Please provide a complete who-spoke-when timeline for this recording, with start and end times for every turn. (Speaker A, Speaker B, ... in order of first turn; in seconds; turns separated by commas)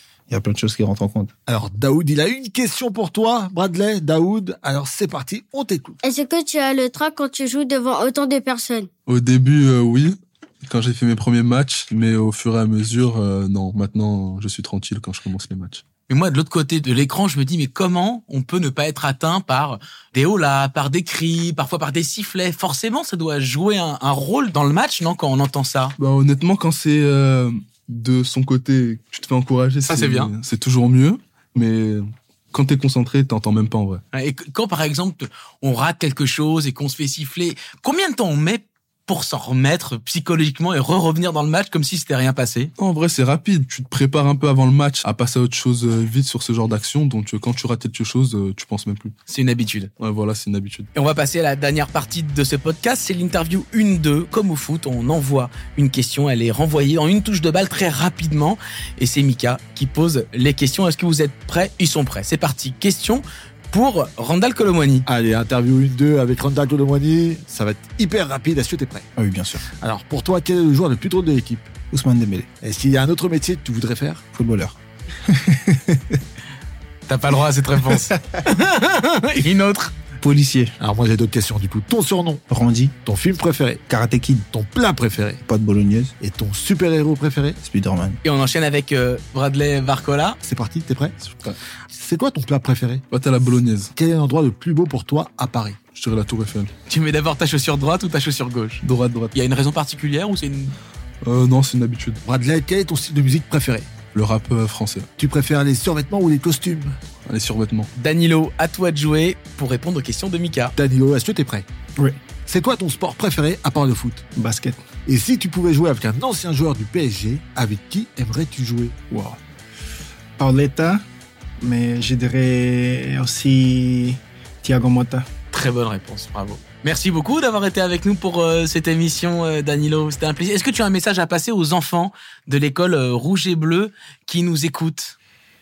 Speaker A: 0.3-1.3, Speaker B: 1.5-6.0, Speaker C: 6.0-8.9, Speaker D: 9.1-15.8, Speaker E: 16.1-25.9, Speaker D: 26.0-34.0, Speaker E: 29.9-30.3, Speaker E: 34.1-42.7, Speaker D: 42.8-49.1, Speaker E: 49.3-49.9, Speaker D: 50.0-50.9, Speaker E: 50.9-65.1, Speaker B: 65.1-69.0, Speaker A: 69.2-69.6, Speaker B: 69.8-71.7, Speaker A: 71.9-72.5, Speaker B: 72.6-74.2, Speaker A: 74.3-74.8, Speaker A: 75.3-76.2, Speaker E: 77.1-79.9, Speaker A: 80.2-80.8, Speaker B: 80.8-82.4, Speaker A: 82.5-83.0, Speaker B: 83.0-83.8, Speaker A: 83.9-84.5, Speaker B: 84.5-85.4, Speaker A: 85.4-86.1, Speaker B: 86.2-87.6, Speaker A: 87.6-88.2, Speaker E: 88.2-90.4, Speaker B: 90.4-91.1, Speaker D: 91.2-91.6, Speaker B: 91.9-93.0, Speaker D: 93.1-93.9, Speaker B: 94.0-95.8, Speaker D: 95.9-96.7, Speaker E: 96.9-98.8, Speaker D: 98.8-99.3, Speaker E: 99.3-100.8, Speaker D: 101.2-102.2, Speaker B: 102.2-103.9, Speaker D: 104.1-105.1, Speaker B: 105.2-107.0, Speaker D: 107.3-107.9, Speaker E: 108.0-110.7, Speaker B: 110.8-111.7, Speaker B: 112.5-114.2, Speaker F: 114.3-114.9, Speaker B: 115.1-118.9, Speaker F: 119.1-119.4, Speaker F: 120.4-121.0, Speaker F: 121.6-125.2, Speaker E: 125.5-135.2